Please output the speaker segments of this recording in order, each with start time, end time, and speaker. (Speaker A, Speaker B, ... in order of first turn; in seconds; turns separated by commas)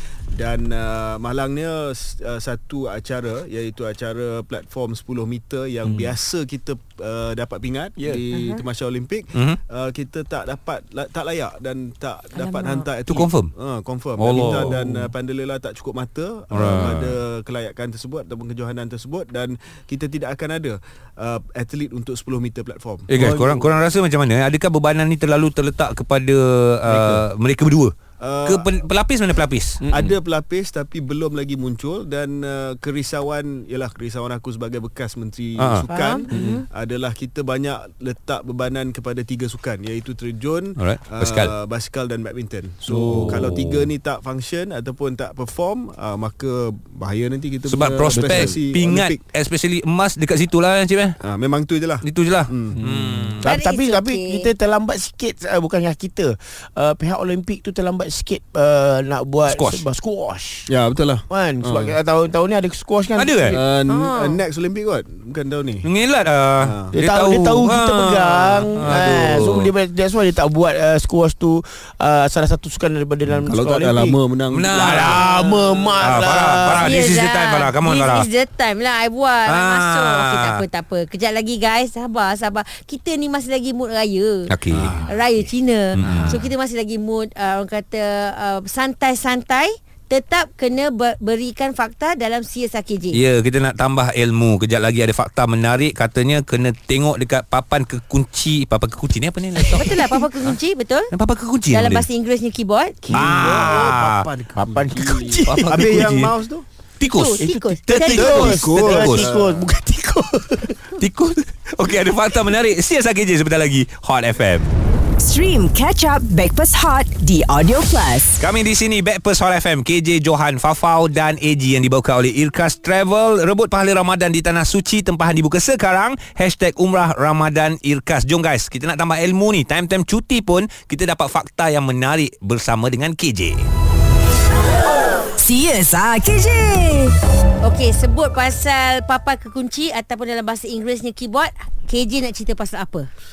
Speaker A: 0.3-23.1, Speaker B: 8.3-8.6, Speaker C: 9.3-9.6, Speaker B: 12.3-12.9, Speaker C: 13.1-13.5, Speaker C: 14.2-15.1, Speaker C: 16.5-17.2, Speaker C: 23.1-27.9, Speaker D: 23.1-23.7, Speaker A: 26.9-27.2, Speaker A: 28.2-28.7, Speaker C: 28.4-29.8, Speaker D: 29.8-30.2, Speaker A: 29.9-49.2, Speaker C: 35.6-35.9, Speaker B: 35.9-36.6, Speaker D: 36.3-36.6, Speaker C: 40.8-41.5, Speaker C: 42.9-43.9, Speaker C: 47.6-51.2, Speaker A: 51.2-52.8, Speaker C: 52.0-53.5, Speaker D: 53.4-60.7, Speaker B: 53.4-54.5, Speaker C: 59.5-59.8, Speaker A: 60.7-61.9, Speaker D: 61.3-63.4, Speaker C: 63.2-63.6, Speaker A: 63.5-65.8, Speaker B: 63.9-64.4, Speaker C: 65.8-69.7, Speaker A: 66.6-66.9, Speaker D: 66.9-74.2, Speaker A: 68.8-69.6, Speaker A: 73.5-75.9, Speaker C: 74.5-75.2, Speaker D: 74.9-77.0, Speaker C: 76.0-78.3, Speaker B: 76.8-84.5, Speaker C: 79.5-80.6, Speaker C: 84.5-85.0, Speaker A: 84.7-85.1, Speaker B: 85.0-93.2, Speaker C: 86.0-86.4, Speaker A: 86.0-86.3, Speaker C: 93.1-100.5, Speaker B: 99.7-101.1, Speaker C: 101.1-102.0, Speaker B: 101.7-103.2, Speaker A: 103.1-106.7, Speaker D: 103.1-104.0, Speaker C: 103.1-104.3, Speaker D: 104.5-106.0, Speaker C: 105.4-106.3, Speaker C: 107.0-109.3, Speaker B: 107.0-108.5, Speaker D: 107.4-110.8, Speaker A: 108.0-109.7, Speaker C: 111.0-114.7, Speaker E: 115.2-118.4, Speaker C: 118.4-133.7, Speaker E: 135.3-137.2, Speaker B: 137.6-143.1